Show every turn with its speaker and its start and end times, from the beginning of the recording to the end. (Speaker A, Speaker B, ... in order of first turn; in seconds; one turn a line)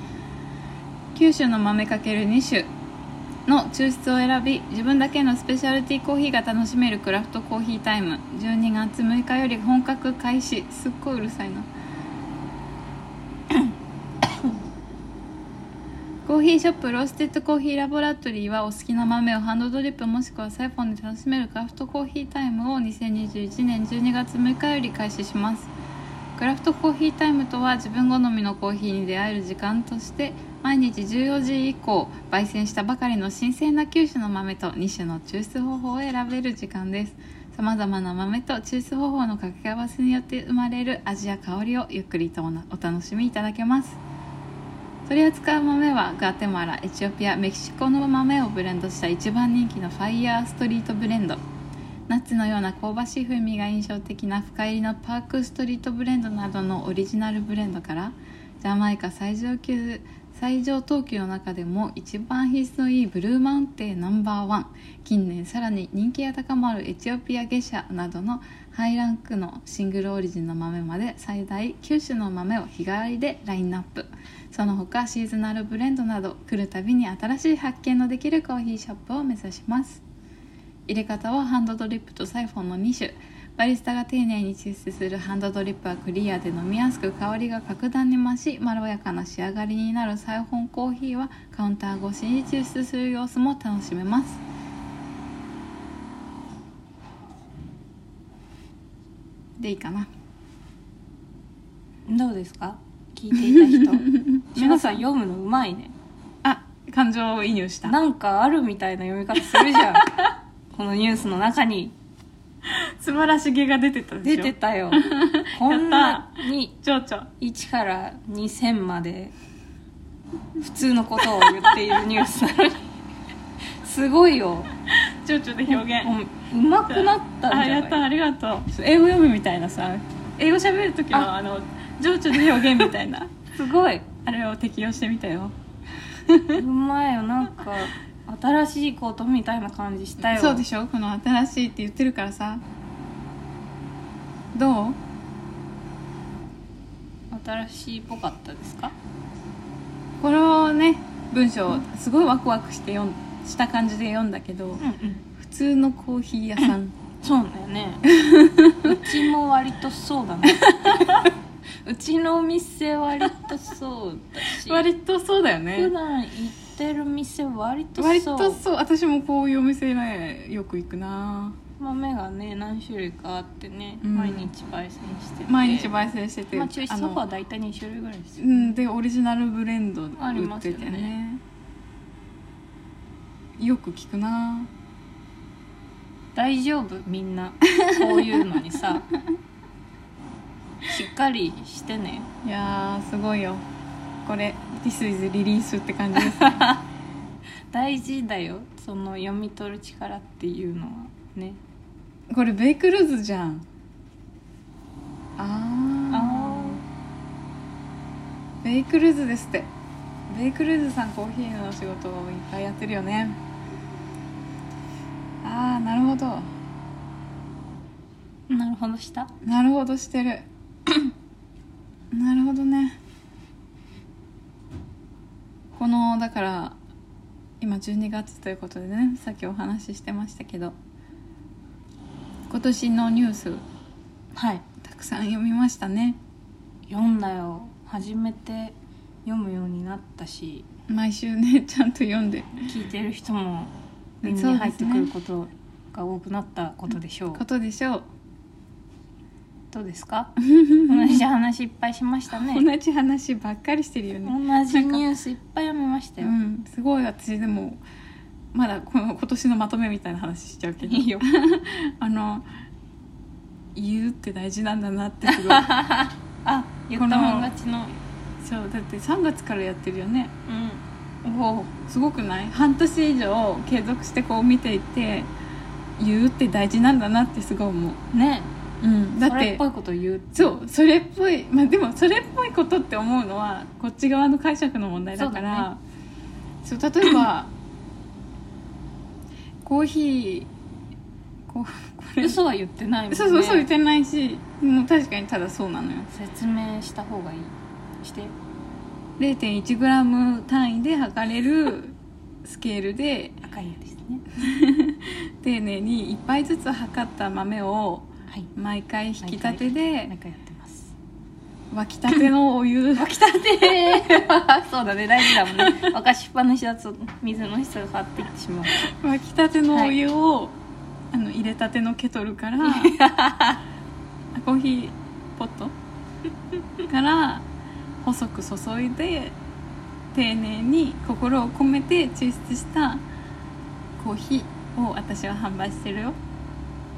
Speaker A: 1.1-2.7
Speaker A: 3.5-11.7
Speaker A: 16.2-25.7
Speaker A: 26.4-44.0
Speaker A: 45.1-51.4
Speaker A: 52.1-80.0
Speaker A: 80.9-94.4
Speaker A: 99.6-100.1
Speaker B: 102.1-105.9
Speaker A: 103.4-105.0
Speaker A: 106.4-108.0
Speaker B: 107.8-110.2
Speaker A: 109.5-110.2
Speaker B: 110.7-112.0
Speaker A: 112.7-117.3
Speaker B: 114.2-116.8
Speaker B: 117.4-119.3
Speaker B: 120.6-122.9
Speaker A: 121.2-122.0
Speaker B: 123.8-124.7
Speaker A: 124.9-126.1
Speaker B: 125.7-128.1
Speaker A: 126.9-133.3
Speaker B: 133.6-134.1
Speaker A: 134.2-135.6
Speaker A: 136.3-136.6
Speaker B: 136.5-140.6
Speaker A: 140.2-142.6
Speaker A: 144.5-145.0
Speaker B: 147.3-148.9
Speaker A: 150.2-154.8
Speaker B: 154.8-155.2
Speaker A: 155.4-156.9
Speaker B: 157.2-158.1
Speaker A: 158.1-159.3
Speaker B: 158.8-161.3
Speaker A: 160.6-161.3
Speaker B: 161.8-164.9
Speaker A: 164.6-165.9
Speaker B: 165.8-168.6
Speaker A: 168.0-171.6
Speaker B: 171.8-175.9
Speaker A: 174.0-174.5
Speaker A: 175.5-177.2
Speaker B: 176.5-178.8
Speaker A: 178.4-181.4
Speaker B: 180.2-181.1
Speaker A: 183.6-184.7
Speaker B: 186.3-189.1
Speaker A: 187.8-188.2
Speaker B: 190.9-192.3
Speaker A: 192.4-193.7
Speaker A: 194.2-196.7
Speaker B: 196.4-196.8
Speaker B: 197.7-201.6
Speaker A: 202.3-203.7
Speaker A: 205.4-206.8
Speaker B: 206.1-206.8
Speaker A: 208.6-209.7
Speaker A: 210.3-213.4
Speaker A: 215.4-216.5
Speaker B: 218.5-219.3
Speaker A: 219.4-220.5
Speaker A: 222.1-223.0
Speaker A: 225.7-226.8
Speaker A: 227.6-230.8
Speaker A: 232.5-233.7
Speaker B: 234.4-234.6
Speaker A: 234.8-236.2
Speaker B: 236.9-240.7
Speaker A: 240.9-242.7
Speaker B: 242.7-247.4
Speaker A: 244.2-245.1
Speaker A: 247.3-248.1
Speaker B: 249.7-252.7
Speaker A: 250.4-251.2
Speaker A: 252.3-255.0
Speaker B: 254.2-256.3
Speaker A: 256.2-257.8
Speaker A: 258.5-262.5
Speaker B: 260.8-261.3
Speaker A: 263.8-265.7
Speaker B: 265.3-267.9
Speaker A: 266.9-267.5
Speaker A: 268.4-270.3
Speaker B: 270.5-271.7
Speaker A: 271.8-275.3
Speaker A: 276.0-278.0
Speaker B: 278.1-278.5
Speaker A: 278.8-279.6
Speaker B: 279.2-280.6
Speaker A: 280.4-285.8
Speaker B: 285.1-285.7
Speaker A: 286.6-287.5
Speaker A: 289.6-290.5
Speaker A: 291.5-292.4
Speaker B: 292.2-293.7
Speaker A: 293.1-296.1
Speaker B: 296.1-298.4
Speaker A: 299.2-303.4
Speaker B: 303.4-304.2
Speaker A: 304.4-310.1
Speaker B: 309.2-310.9
Speaker A: 311.7-314.2
Speaker B: 313.0-318.9
Speaker A: 315.4-315.9
Speaker A: 318.8-320.6
Speaker A: 321.1-323.0
Speaker B: 322.6-323.6
Speaker A: 324.3-325.8
Speaker A: 326.9-327.5
Speaker A: 328.0-329.4
Speaker A: 330.1-333.1
Speaker A: 334.0-336.2